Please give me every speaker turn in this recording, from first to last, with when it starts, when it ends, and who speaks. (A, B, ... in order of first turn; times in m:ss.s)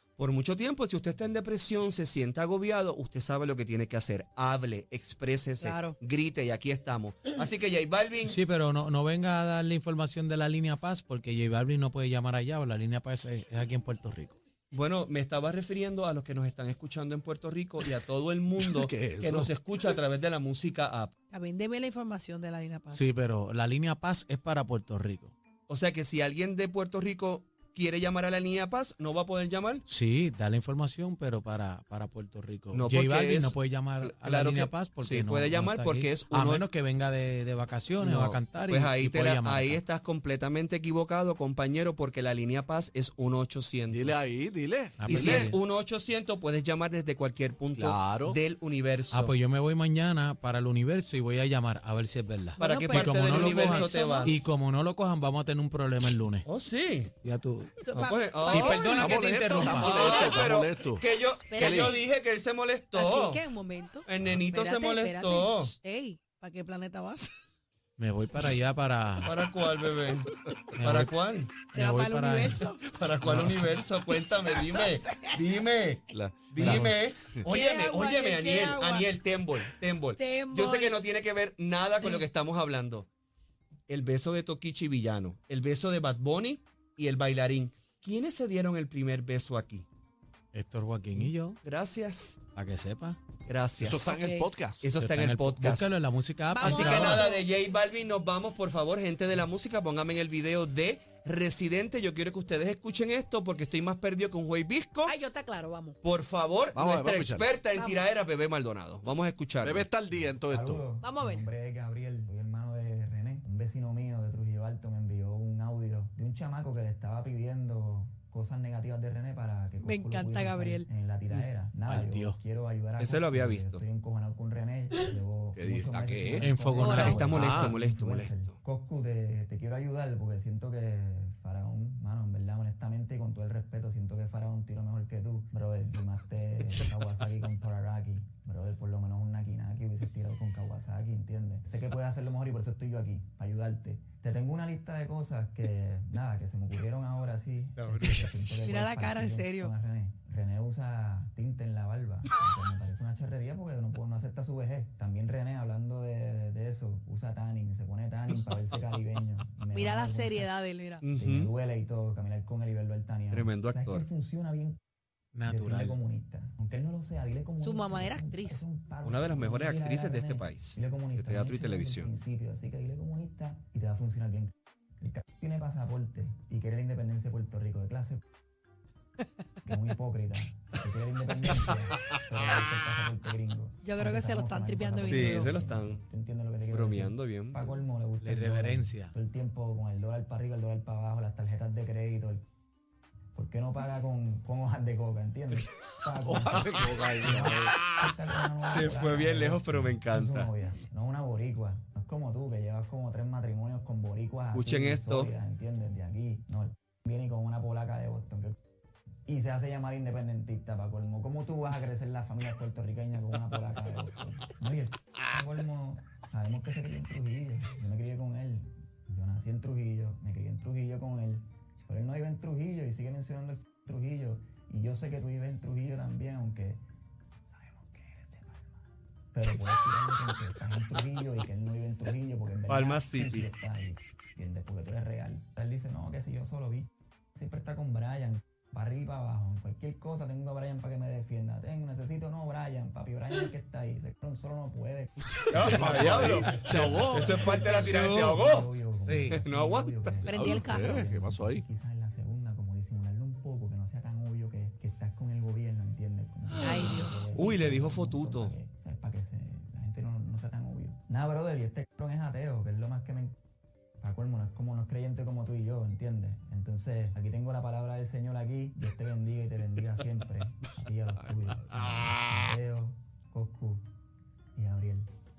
0:00.2-0:08.4 A
0:05.6-0:06.0 B
0:08.2-0:14.4 C
0:14.7-0:21.1 A
0:18.6-0:19.5 D
0:21.3-0:23.0 B
0:22.9-0:25.3 C
0:25.7-0:29.8 A
0:29.9-0:39.8 C
0:32.7-0:36.7 A
0:38.0-0:44.2 A
0:43.9-0:45.5 D
0:45.0-0:45.6 C
0:45.1-0:49.4 A
0:47.8-0:48.4 D
0:49.1-0:56.4 C
0:52.6-0:54.4 B
0:52.6-0:54.4 A
0:56.4-0:57.1 A
0:57.2-0:57.9 C
0:57.9-1:00.3 B
0:57.9-0:59.0 A
0:58.5-1:00.0 C
0:59.0-1:02.0 D
0:59.7-1:03.4 A
1:01.4-1:02.0 B
1:03.0-1:07.3 B
1:04.1-1:05.7 A
1:08.0-1:09.3 C
1:09.2-1:11.5 A
1:10.8-1:11.1 C
1:11.7-1:12.6 C
1:11.7-1:12.9 B
1:13.0-1:23.1 A
1:13.2-1:13.6 C
1:14.4-1:15.4 B
1:16.1-1:17.5 D
1:17.5-1:19.1 B
1:20.2-1:21.0 B
1:23.9-1:29.9 A
1:30.5-1:31.6 C
1:31.2-1:32.4 A
1:32.6-1:33.2 C
1:33.5-1:34.2 A
1:33.8-1:34.9 D
1:34.1-1:34.5 B
1:34.8-1:35.9 A
1:35.0-1:37.3 C
1:36.5-1:37.4 B
1:36.6-1:45.1 A
1:45.0-1:46.0 B
1:46.0-1:49.9 A
1:46.7-1:47.5 D
1:47.7-1:48.0 B
1:49.6-1:50.8 D
1:50.1-2:40.6 E
1:51.0-1:51.5 B
1:59.8-2:00.9 B
2:01.8-2:02.4 C
2:03.0-2:03.8 A
2:05.6-2:06.5 D
2:06.4-2:07.4 C
2:06.8-2:07.2 B
2:06.8-2:08.6 A
2:07.3-2:07.8 D
2:27.8-2:28.4 A
2:28.6-2:29.7 B
2:39.7-2:41.0 B
2:41.0-2:41.5 A
2:41.2-2:44.8 E
2:43.3-2:44.0 A
2:45.4-2:46.0 C
2:45.4-2:58.2 E
2:47.6-2:48.6 B
2:49.0-2:52.1 A
2:59.6-3:12.4 E
3:03.8-3:05.5 B
3:05.1-3:06.0 A
3:06.7-3:07.6 A
3:08.2-3:09.1 C
3:13.4-3:28.6 E
3:16.2-3:18.0 D
3:18.7-3:20.5 A
3:24.5-3:25.3 A
3:29.3-3:46.8 E
3:47.6-4:23.3 E
3:52.7-3:53.5 A
4:05.5-4:08.7 A
4:05.6-4:07.9 D
4:07.7-4:08.4 C
4:09.0-4:09.4 C
4:09.3-4:10.3 A
4:10.2-4:11.0 B
4:10.3-4:11.6 D
4:16.5-4:18.6 A
4:16.6-4:17.2 B
4:24.0-4:33.8 E
4:31.2-4:32.3 D
4:34.6-4:35.1 E